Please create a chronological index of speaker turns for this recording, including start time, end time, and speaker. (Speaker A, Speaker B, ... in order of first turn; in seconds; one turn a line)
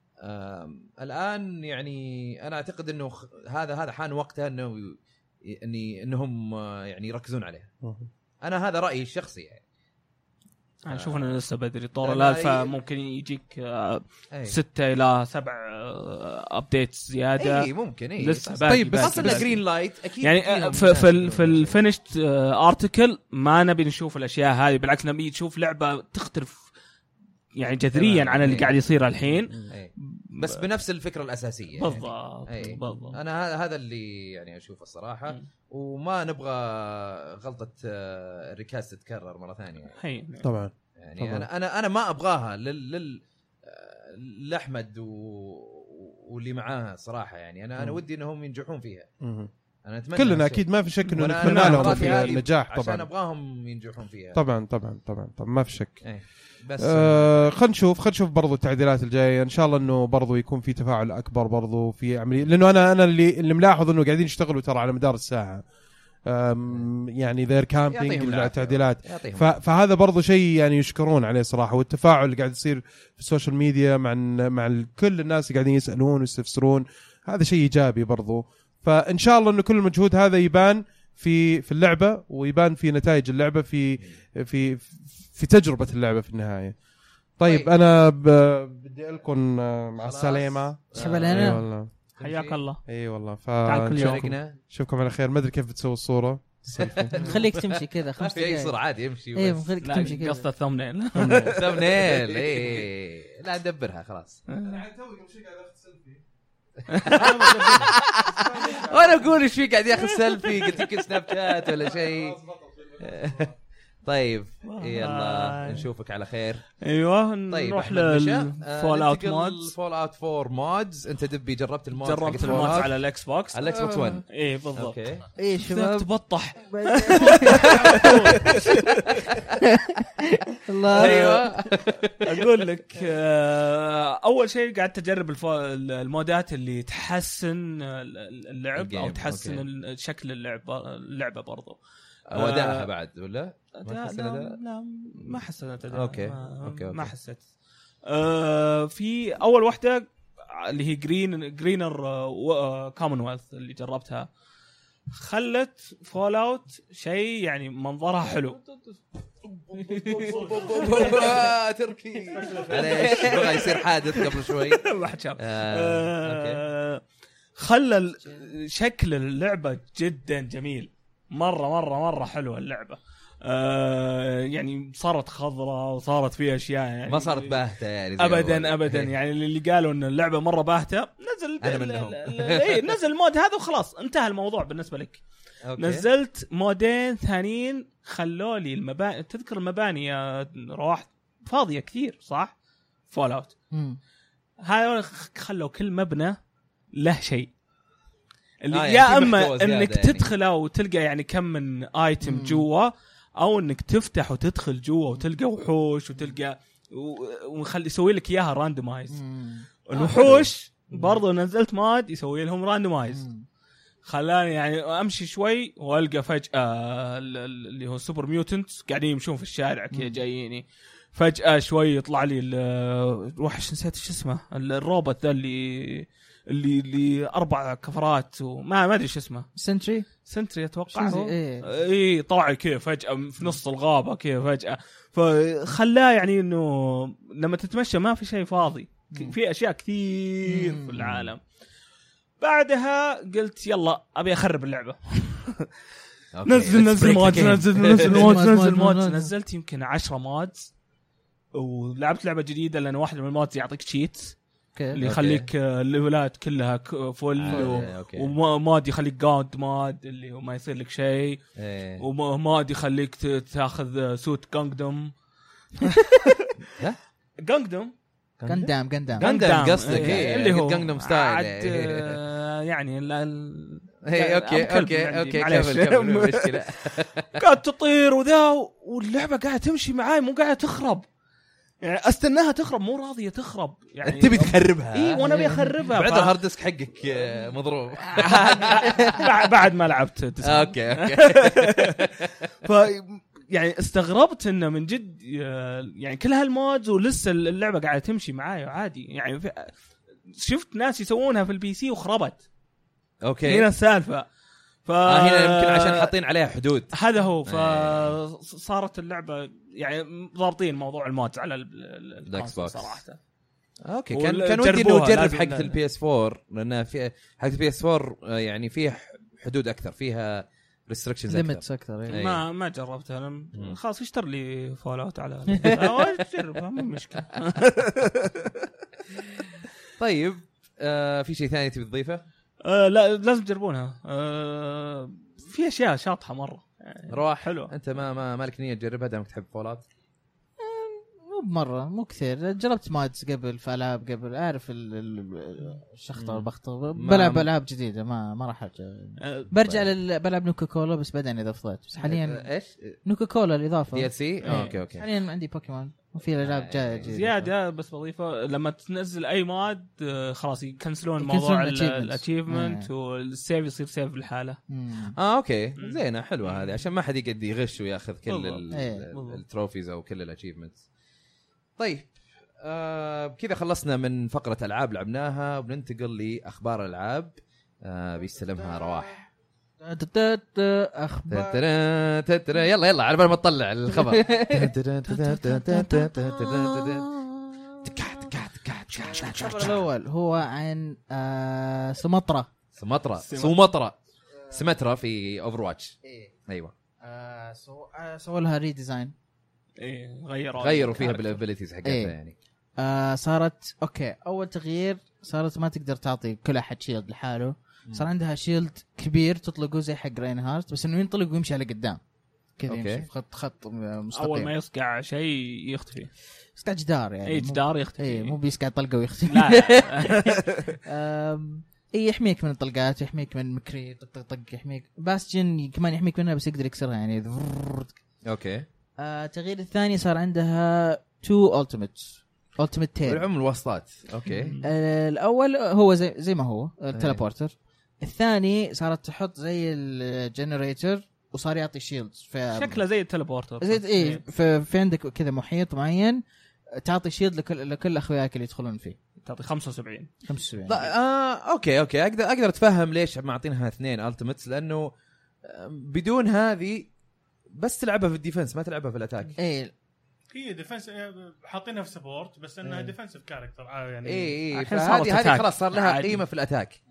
Speaker A: 0.2-7.7
Speaker B: 7.8-8.1
Speaker A: 8.4-9.6
Speaker C: 10.8-19.6
Speaker A: 10.9-11.4
Speaker A: 12.0-12.8
Speaker A: 14.3-14.6
Speaker A: 17.4-21.8
Speaker C: 20.2-26.7
Speaker C: 27.6-29.7
Speaker A: 27.9-28.8
Speaker A: 29.7-40.0
Speaker C: 30.2-30.6
Speaker C: 31.8-33.2
Speaker C: 40.0-40.5
Speaker B: 40.4-41.5
Speaker A: 41.0-49.1
Speaker B: 49.2-49.5
Speaker A: 49.9-54.4
Speaker B: 50.1-53.1
Speaker C: 51.1-52.4
Speaker B: 54.3-56.0
Speaker A: 56.0-57.3
Speaker B: 56.8-65.6
Speaker B: 66.3-86.8
Speaker A: 67.9-69.5
Speaker B: 87.4-91.9
Speaker A: 90.0-91.6
Speaker D: 91.0-91.6
Speaker A: 92.2-92.6
Speaker C: 92.2-92.8
Speaker B: 92.9-97.2
Speaker C: 93.7-94.3
Speaker A: 93.9-94.6
Speaker A: 96.8-97.5
Speaker D: 97.1-98.7
Speaker A: 98.2-99.7
Speaker D: 99.3-100.5
Speaker C: 99.8-101.6
Speaker B: 101.2-102.2
Speaker A: 101.2-104.4
Speaker C: 104.5-104.8
Speaker B: 104.6-106.2
Speaker C: 106.9-107.9
Speaker A: 107.1-112.4
Speaker B: 107.1-109.5
Speaker E: 107.2-107.6
Speaker B: 111.8-113.5
Speaker A: 113.0-113.5
Speaker A: 114.0-116.7
Speaker C: 114.7-115.9
Speaker C: 116.8-119.7
Speaker A: 117.5-123.0
Speaker C: 121.9-123.6
Speaker A: 123.5-125.3
Speaker D: 123.7-124.2
Speaker C: 124.3-125.0
Speaker D: 125.4-128.6
Speaker C: 125.7-129.2
Speaker A: 127.5-128.6
Speaker D: 129.3-131.5
Speaker C: 130.9-131.4
Speaker A: 130.9-132.5
Speaker C: 132.2-141.8
Speaker A: 138.8-139.7
Speaker A: 142.3-144.6
Speaker C: 142.3-142.9
Speaker C: 143.8-147.4
Speaker A: 145.9-147.1
Speaker C: 148.1-154.3
Speaker C: 155.1-158.6
Speaker C: 159.7-161.5
Speaker A: 159.9-166.6
Speaker E: 160.3-160.9
Speaker E: 162.3-162.8
Speaker C: 162.7-167.0
Speaker C: 167.6-177.6
Speaker A: 177.1-179.1
Speaker C: 178.2-185.2
Speaker A: 181.6-182.9
Speaker A: 185.6-186.1
Speaker C: 185.8-192.5
Speaker C: 193.1-193.5
Speaker D: 193.7-194.0
Speaker C: 194.6-196.4
Speaker C: 197.0-197.5
Speaker C: 198.6-209.2
Speaker A: 198.7-200.3
Speaker D: 202.2-202.7
Speaker D: 209.1-210.4
Speaker C: 209.9-213.2
Speaker A: 210.2-210.5
Speaker D: 210.9-211.2
Speaker D: 213.1-213.5
Speaker C: 214.0-229.5
Speaker D: 219.9-220.2
Speaker D: 229.6-230.1
Speaker C: 230.2-241.4
Speaker D: 230.9-231.7
Speaker D: 240.5-241.0
Speaker A: 241.0-241.3
Speaker C: 242.4-245.7
Speaker A: 246.3-248.4
Speaker C: 246.5-250.7
Speaker D: 247.9-249.3
Speaker C: 251.6-254.4
Speaker D: 254.8-255.0
Speaker C: 254.9-261.4
Speaker A: 255.0-255.5
Speaker A: 257.4-258.3
Speaker D: 257.5-257.9
Speaker A: 261.6-262.0
Speaker C: 262.0-265.1
Speaker C: 265.8-266.5
Speaker C: 267.4-267.9
Speaker A: 268.4-272.2
Speaker D: 268.5-269.3
Speaker C: 269.2-281.1
Speaker D: 269.9-270.2
Speaker A: 274.1-277.4
Speaker C: 281.8-286.4
Speaker A: 284.0-289.3
Speaker D: 285.2-285.7
Speaker C: 288.0-292.1
Speaker A: 290.4-292.3
Speaker C: 292.6-299.8
Speaker C: 300.3-302.4
Speaker A: 303.2-303.7
Speaker C: 303.4-304.3
Speaker C: 304.9-306.1
Speaker A: 305.1-308.2
Speaker C: 306.9-313.2
Speaker A: 312.3-313.0
Speaker A: 313.9-322.4
Speaker C: 314.1-315.7
Speaker D: 321.3-322.2
Speaker C: 322.1-328.4
Speaker A: 330.0-332.2
Speaker C: 332.6-337.7
Speaker A: 337.1-339.9
Speaker D: 340.6-352.5
Speaker A: 346.2-347.5
Speaker C: 349.2-349.5
Speaker A: 352.0-353.0
Speaker D: 353.1-357.5
Speaker A: 353.9-355.1
Speaker C: 354.4-354.7
Speaker A: 356.4-357.1
Speaker C: 357.1-364.6
Speaker D: 361.2-362.9
Speaker D: 364.7-365.2
Speaker A: 365.2-370.8
Speaker C: 365.8-366.8
Speaker C: 368.3-369.4
Speaker D: 368.7-369.1
Speaker A: 371.8-379.3
Speaker D: 378.5-379.2
Speaker D: 379.8-381.6
Speaker A: 381.3-387.1
Speaker D: 383.9-386.8
Speaker A: 387.8-389.8
Speaker D: 389.0-392.5
Speaker A: 392.8-394.0
Speaker C: 393.2-393.6
Speaker A: 394.5-396.0
Speaker D: 396.0-396.3
Speaker A: 396.5-396.7
Speaker D: 397.0-399.1
Speaker C: 399.8-401.4
Speaker A: 400.6-402.4
Speaker D: 401.8-402.1
Speaker D: 402.8-412.0
Speaker D: 412.6-414.5
Speaker A: 412.7-413.1
Speaker C: 414.1-416.1
Speaker D: 416.6-428.0
Speaker C: 417.3-418.4
Speaker C: 419.3-420.7
Speaker A: 428.2-428.7
Speaker D: 429.0-433.3
Speaker A: 433.1-434.6
Speaker C: 434.3-434.7
Speaker D: 434.6-442.8
Speaker A: 436.9-437.2
Speaker C: 442.5-444.2
Speaker D: 443.6-446.2
Speaker D: 446.8-449.0
Speaker C: 449.2-450.1
Speaker D: 450.3-450.9
Speaker A: 450.7-454.9
Speaker A: 455.4-456.9
Speaker A: 457.6-459.4
Speaker D: 459.4-459.7
Speaker E: 460.3-464.4
Speaker D: 462.6-462.9
Speaker A: 464.1-466.8
Speaker C: 464.5-466.2